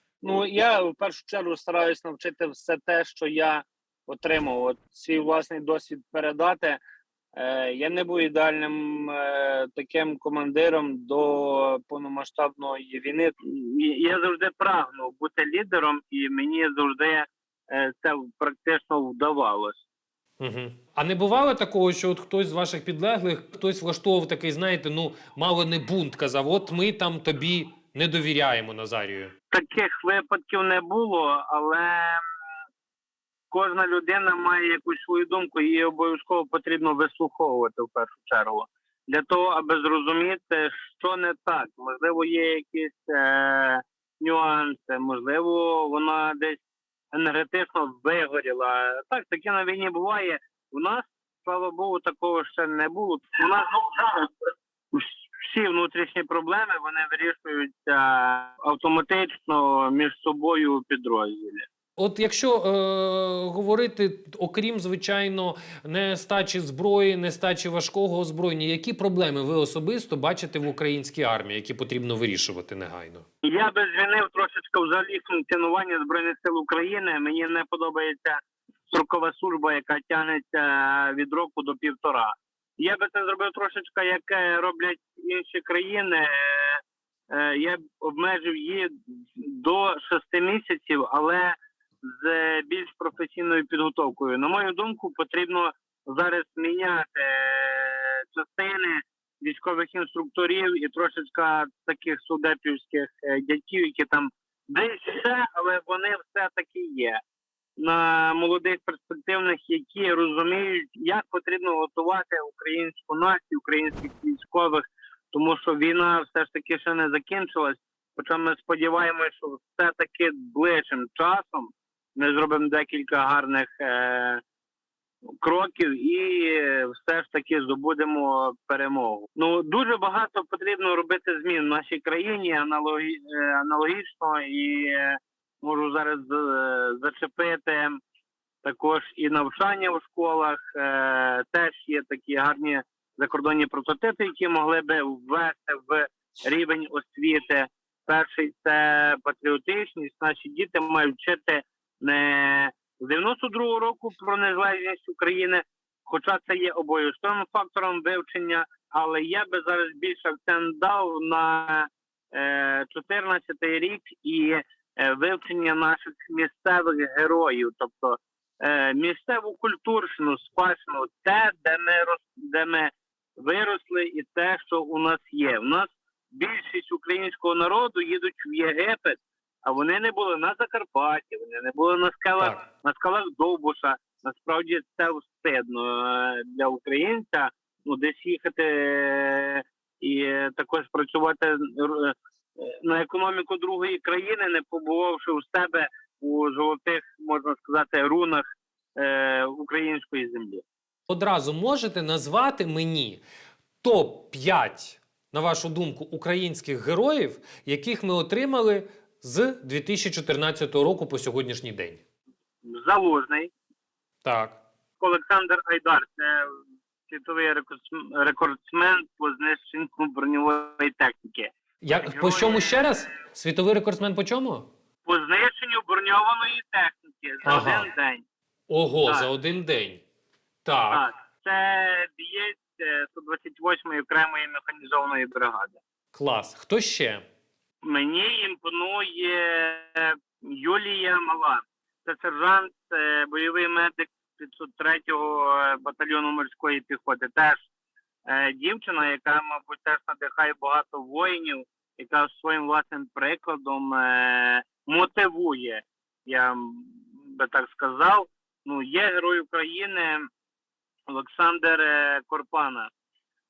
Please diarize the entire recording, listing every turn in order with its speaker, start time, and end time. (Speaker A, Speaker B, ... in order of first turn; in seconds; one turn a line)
Speaker A: 0.2-6.8
Speaker A: 7.3-19.8
Speaker B: 20.4-29.3
Speaker A: 29.5-32.2
Speaker A: 33.5-46.6
Speaker A: 47.1-54.3
Speaker A: 54.9-61.7
Speaker B: 62.0-73.2
Speaker A: 73.4-107.2
Speaker A: 107.8-124.4
Speaker A: 125.4-138.0
Speaker A: 138.6-200.6
Speaker B: 201.1-203.2
Speaker B: 203.8-212.0
Speaker A: 212.6-213.5
Speaker B: 214.2-214.6
Speaker A: 215.0-221.5
Speaker B: 221.8-224.7
Speaker A: 222.1-223.0
Speaker A: 225.0-228.2
Speaker B: 227.4-227.9
Speaker B: 228.7-230.0
Speaker B: 230.6-231.0
Speaker A: 230.9-235.8
Speaker B: 236.1-237.2
Speaker A: 237.8-247.6
Speaker A: 248.2-260.3
Speaker A: 261.1-262.9